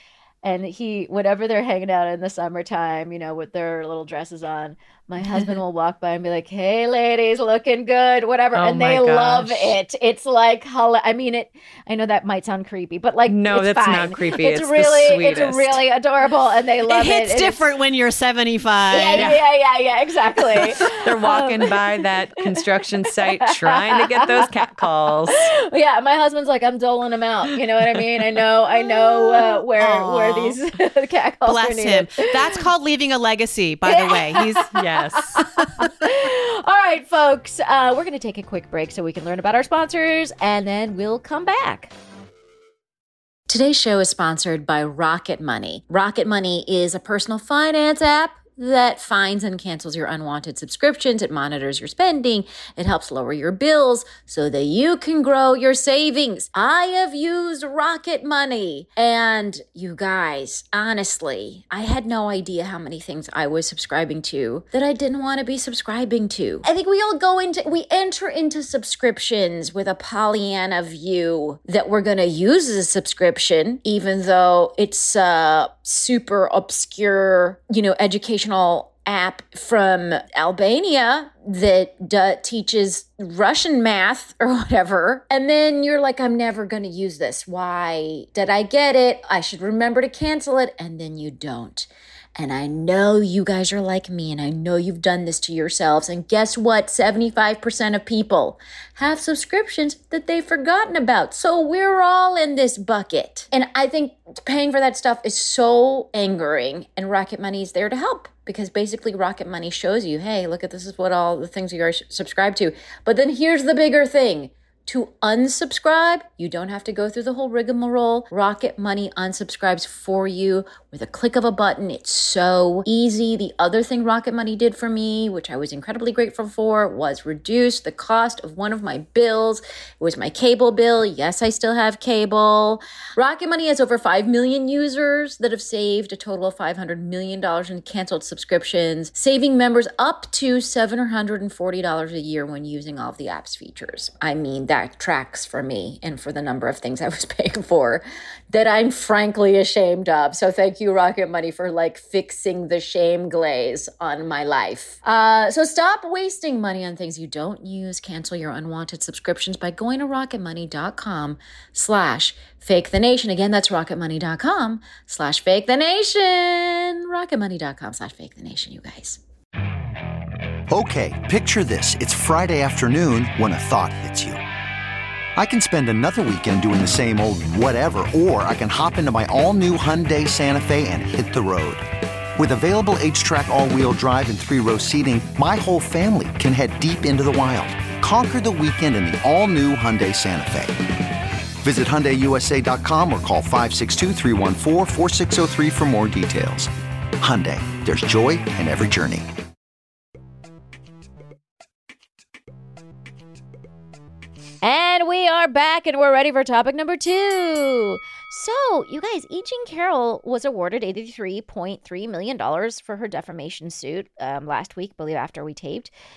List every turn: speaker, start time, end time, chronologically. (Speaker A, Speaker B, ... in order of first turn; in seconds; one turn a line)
Speaker A: 0.4-17.6
Speaker B: 8.5-9.7
Speaker B: 13.3-15.8
Speaker C: 16.9-19.4
Speaker A: 18.9-21.8
Speaker B: 20.8-25.5
Speaker A: 23.4-24.5
Speaker A: 25.3-32.4
Speaker C: 29.3-30.6
Speaker C: 31.4-34.7
Speaker A: 33.9-41.9
Speaker B: 34.7-35.5
Speaker A: 43.5-169.2
Speaker D: 170.7-174.4
Speaker D: 175.3-181.8
Speaker D: 182.3-190.8
Speaker D: 191.6-199.3
Speaker A: 204.6-215.9